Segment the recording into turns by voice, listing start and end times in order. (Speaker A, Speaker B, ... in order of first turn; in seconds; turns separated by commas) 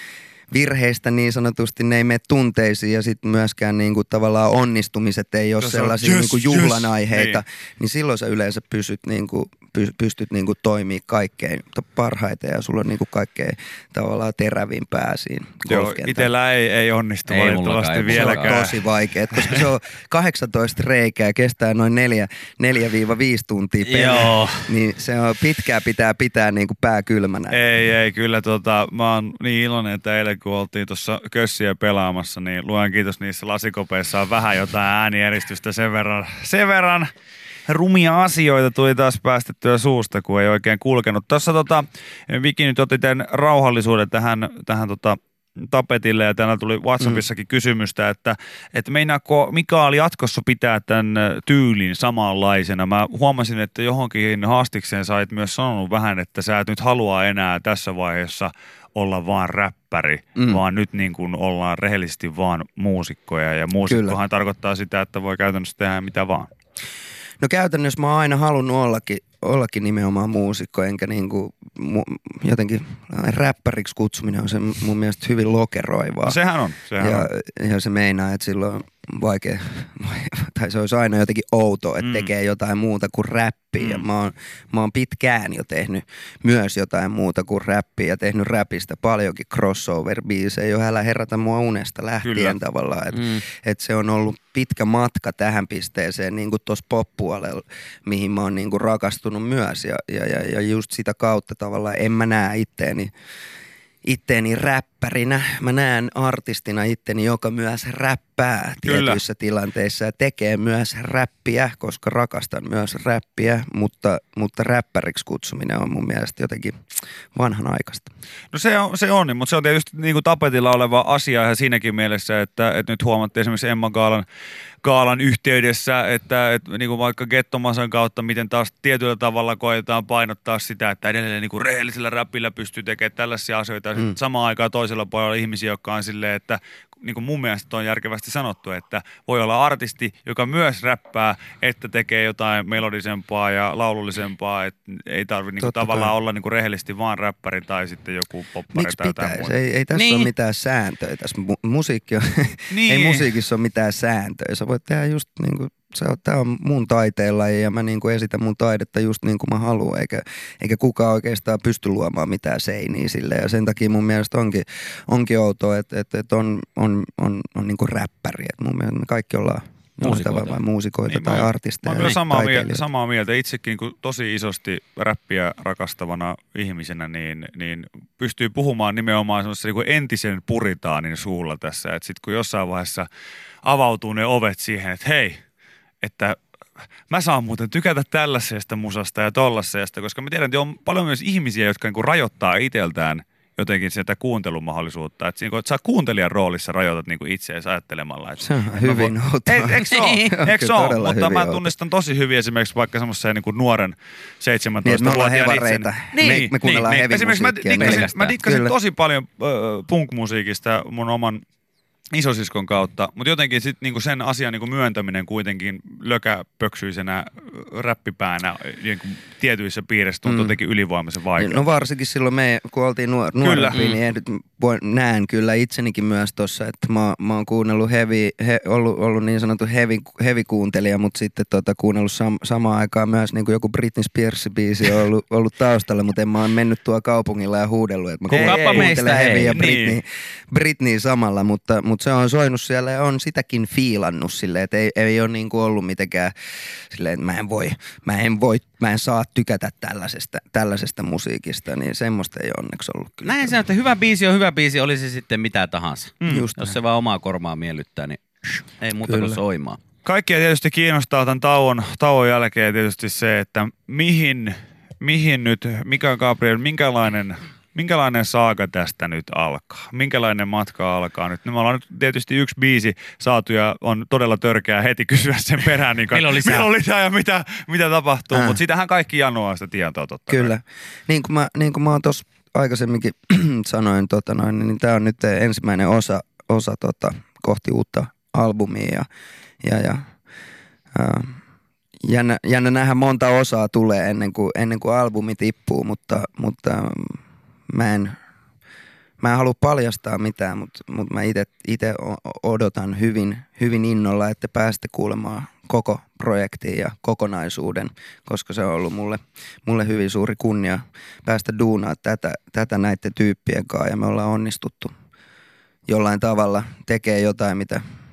Speaker A: 0.5-16.3, Speaker B: 5.6-7.4, Speaker B: 15.7-19.6, Speaker C: 17.2-18.6, Speaker A: 18.1-27.6, Speaker C: 23.8-24.7, Speaker B: 27.5-37.1, Speaker B: 37.7-66.5, Speaker A: 60.4-60.6, Speaker A: 63.9-64.2, Speaker A: 67.4-76.4, Speaker B: 76.2-77.2, Speaker A: 77.0-103.1, Speaker B: 82.0-82.3, Speaker B: 83.8-84.0, Speaker B: 92.2-92.6, Speaker C: 93.1-93.4, Speaker A: 104.0-116.8, Speaker B: 108.8-109.2, Speaker A: 117.3-118.1, Speaker B: 118.5-124.2, Speaker B: 124.8-149.6, Speaker A: 145.6-146.1, Speaker A: 148.7-172.8, Speaker C: 149.9-150.3, Speaker B: 152.7-153.3, Speaker C: 170.0-170.6, Speaker B: 171.1-183.1, Speaker B: 183.6-185.4, Speaker B: 186.0-186.4, Speaker B: 187.1-211.4, Speaker A: 198.4-201.7, Speaker C: 199.9-200.3, Speaker A: 204.8-208.8, Speaker C: 206.1-206.9, Speaker C: 207.7-208.3, Speaker B: 212.1-221.7, Speaker A: 220.2-220.6, Speaker A: 221.3-246.3, Speaker B: 223.4-223.8, Speaker C: 223.7-224.0, Speaker B: 238.3-240.0, Speaker C: 238.3-239.6, Speaker A: 246.9-253.6, Speaker C: 253.2-259.8, Speaker B: 256.2-256.7, Speaker A: 256.2-256.7, Speaker A: 259.0-259.4, Speaker B: 260.0-280.5, Speaker C: 276.1-276.7, Speaker A: 278.3-278.6, Speaker A: 280.3-289.1, Speaker A: 289.6-290.0, Speaker A: 290.9-291.4, Speaker A: 292.0-298.1, Speaker A: 299.2-314.9, Speaker A: 315.9-317.8